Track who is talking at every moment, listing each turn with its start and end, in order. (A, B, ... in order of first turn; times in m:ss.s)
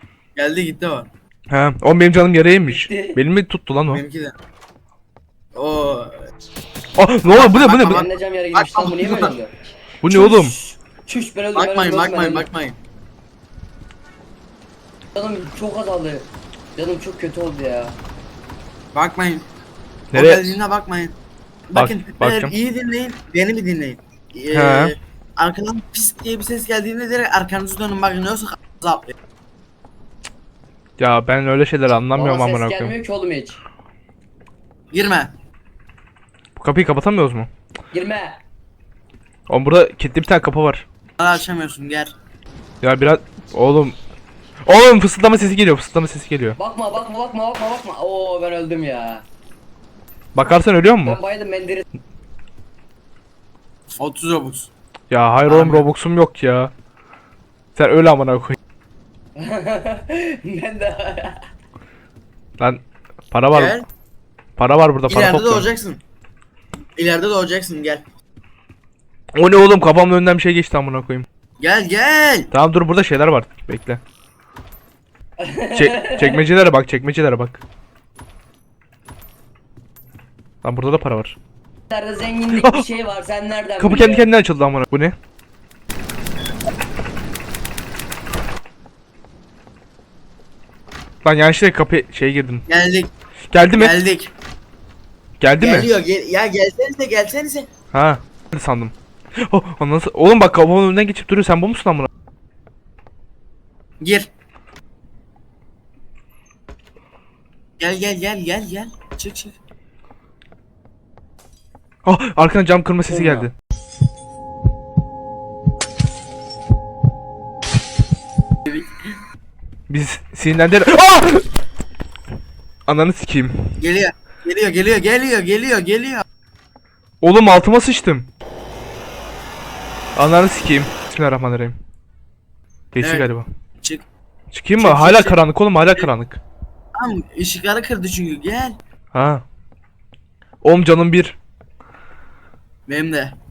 0:00.4-0:01.1 A
0:01.5-0:04.0 B
0:02.7-0:03.2 C
0:03.9-0:04.3 A
0:05.6-0:06.2 A
0:07.0-0:08.0 B
0:07.2-0:09.4 A
0:07.9-0:09.5 C
0:10.0-0:10.6 B
0:10.1-0:12.5 C
0:11.6-0:12.8 A
0:15.2-0:18.0 C
0:18.9-0:19.4 A
0:20.1-0:20.6 B
0:20.1-0:21.2 A
0:21.7-0:29.1 A
0:21.8-0:22.5 B
0:24.5-0:24.9 B
0:31.0-0:33.0 B
0:32.1-0:33.6 C
0:34.9-0:35.3 A
0:36.6-0:37.5 B
0:37.9-0:38.4 C
0:39.5-0:40.8 B
0:41.2-0:42.1 A
0:42.8-0:44.0 B
0:44.7-0:46.6 B
0:46.6-0:49.2 C
0:50.4-0:51.2 B
0:51.0-0:51.9 C
0:54.0-0:54.7 A
0:55.1-0:56.7 B
0:55.5-0:55.9 A
0:57.8-0:58.6 B
0:59.4-1:01.4 C
1:02.6-1:03.8 B
1:03.5-1:03.9 A
1:04.6-1:05.7 B
1:05.1-1:06.0 A
1:07.0-1:08.0 A
1:09.4-1:11.3 B
1:11.6-1:12.5 A
1:12.5-1:14.0 B
1:15.4-1:16.4 C
1:15.7-1:17.6 B
1:20.6-1:21.4 B
1:21.9-1:24.3 C
1:22.6-1:22.9 B
1:23.8-1:25.2 B
1:31.2-1:32.6 B
1:32.7-1:33.1 A
1:33.5-1:34.0 B
1:33.7-1:34.3 A
1:35.4-1:35.9 B
1:35.6-1:37.7 A
1:37.9-1:42.1 B
1:44.0-1:44.3 A
1:47.8-1:49.6 A
1:52.0-1:53.5 B
1:53.1-1:53.5 C
1:59.9-2:01.4 B
2:02.9-2:03.7 B
2:03.8-2:06.2 A
2:07.2-2:08.3 B
2:10.2-2:11.8 B
2:12.9-2:13.5 B
2:13.0-2:13.3 A
2:14.5-2:16.4 B
2:14.8-2:15.4 A
2:17.0-2:18.8 A
2:19.1-2:19.4 B
2:20.6-2:21.4 B
2:22.9-2:23.4 A